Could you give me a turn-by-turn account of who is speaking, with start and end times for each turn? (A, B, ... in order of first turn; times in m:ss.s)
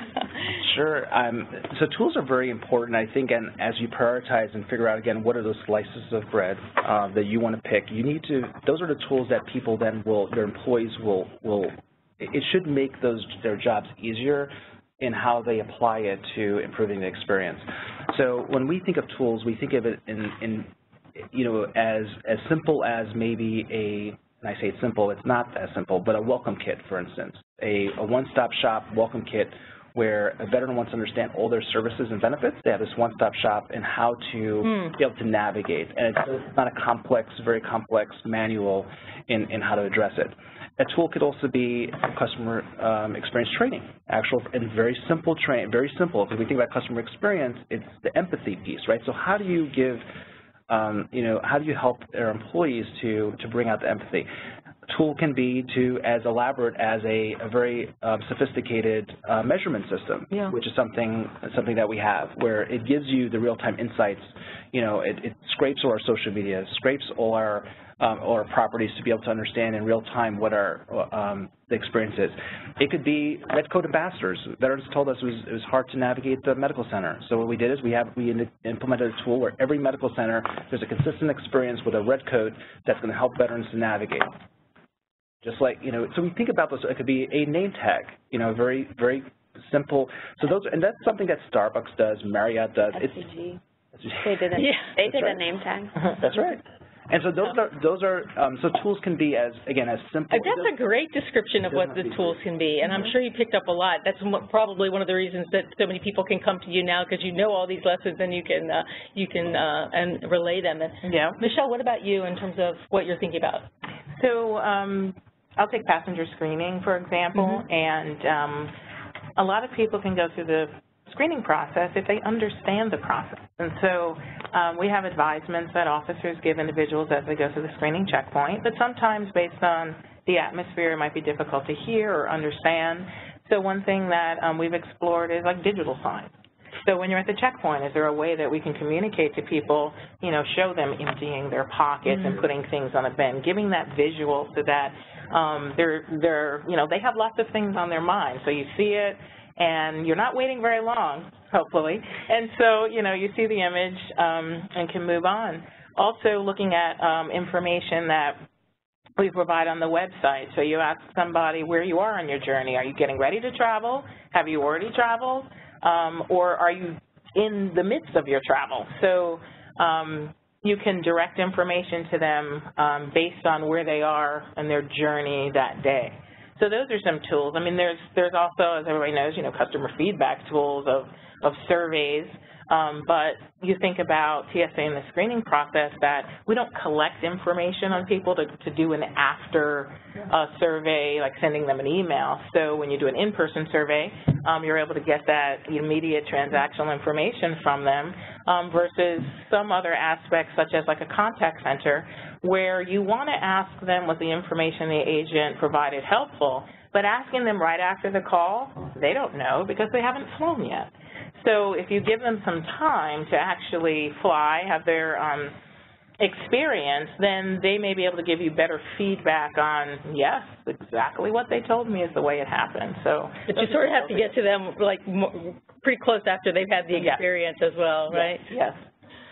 0:00.5-0:50.1 A
0:34.6-0:34.9 B
0:50.7-0:54.3 A
0:54.9-1:24.3 A
1:25.4-1:33.3 A
1:33.0-1:33.6 C
1:34.0-1:34.3 A
1:34.2-1:36.1 C
1:34.5-1:34.9 B
1:35.0-1:35.4 A
1:36.1-1:40.7 A
1:40.3-1:53.7 B
1:41.7-1:42.4 A
1:51.0-1:51.4 D
1:54.1-1:58.7 D
1:59.4-2:38.4 D
2:39.2-3:35.5 D
3:36.2-3:44.3 D
3:43.5-3:48.4 B
3:46.9-3:47.2 D
3:48.1-3:48.8 D